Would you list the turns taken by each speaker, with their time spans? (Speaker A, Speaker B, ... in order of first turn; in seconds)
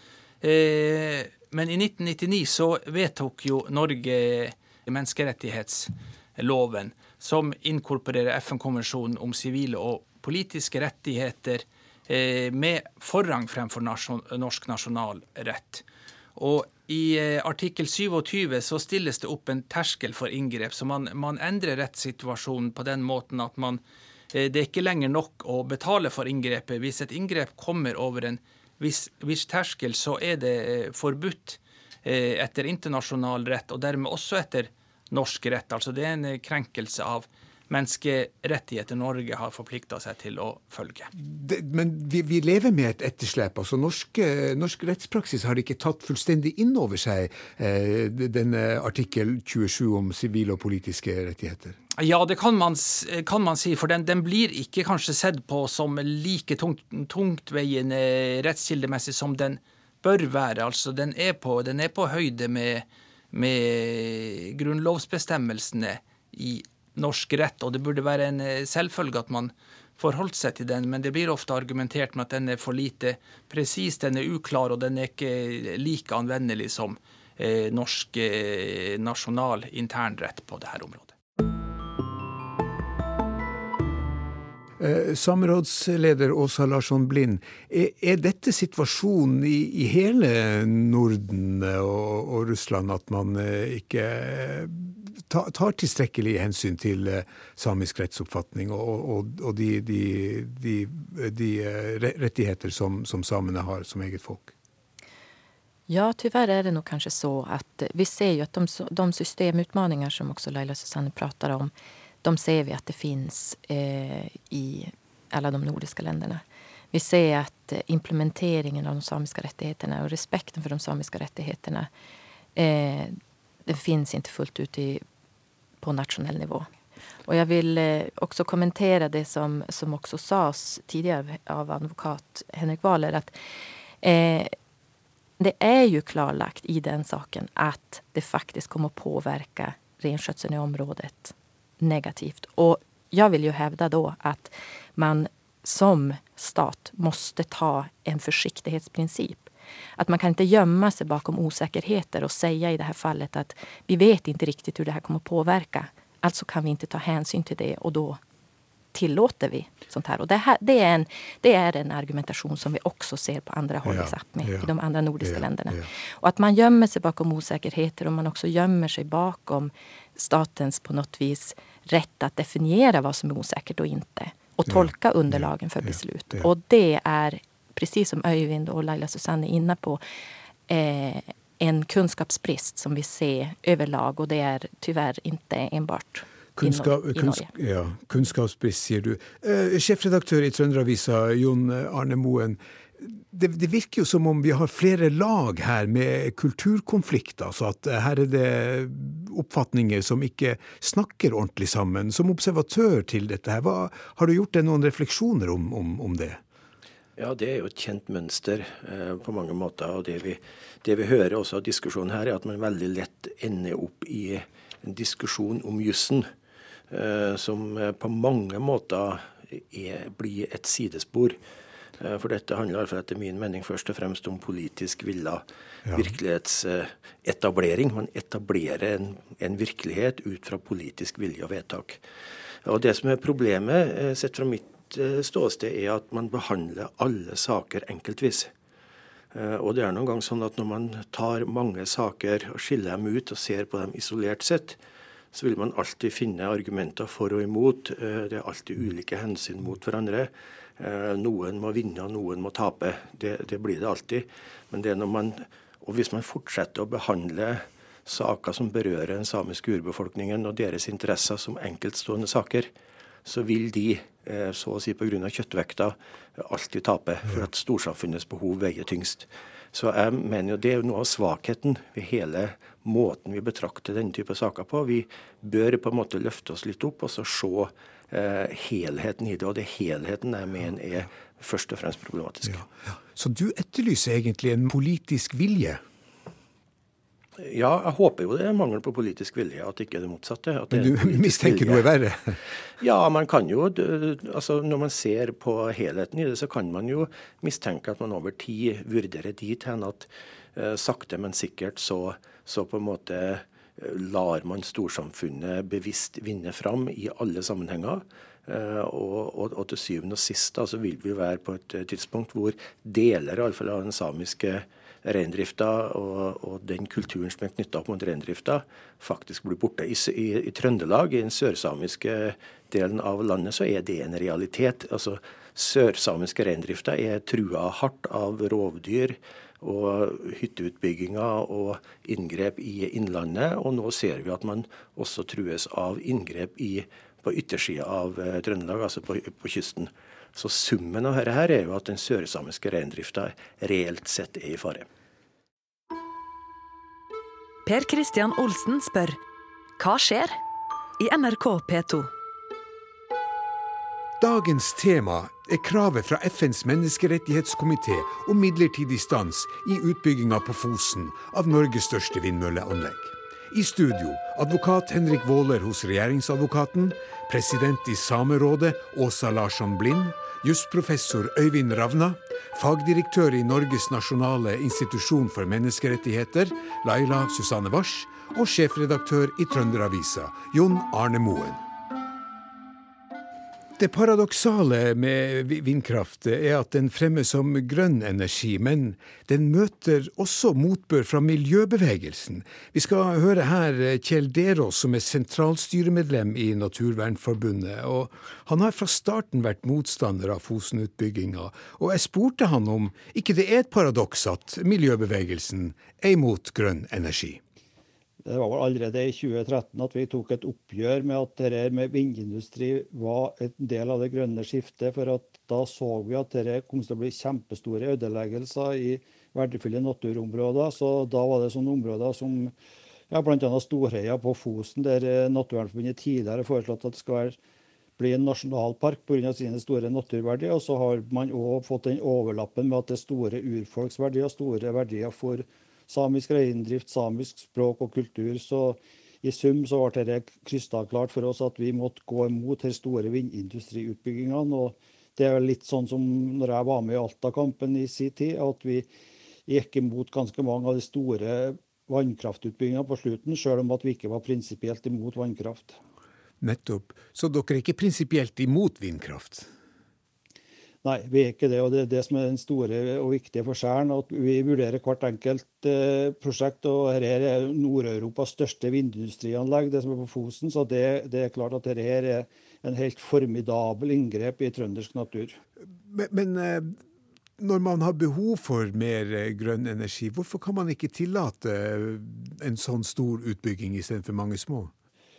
Speaker A: 0.4-41.1, 52.0-81.1
Speaker B: 41.1-51.8, 84.8-104.5, 163.8-164.7, 165.2-165.9, 174.7-176.5, 186.6-206.4, 282.5-285.8, 290.7-292.4, 354.2-381.6, 383.8-407.4, 456.4-459.5, 475.8-476.8, 477.4-484.7
Speaker C: 105.9-111.7, 112.2-121.9, 122.5-125.0, 125.8-126.7, 127.2-133.3, 134.0-134.5, 135.4-158.2, 158.9-180.0, 180.7-187.5
Speaker D: 207.2-216.3, 216.9-221.4, 222.0-232.0, 232.6-238.5, 239.3-244.8, 245.3-262.7, 263.2-282.6, 287.4-291.9, 292.8-344.9
Speaker E: 347.6-349.2, 349.8-350.4, 351.0-352.1
Speaker F: 408.2-422.5, 423.1-427.4, 428.0-448.9, 449.5-455.8, 460.8-475.4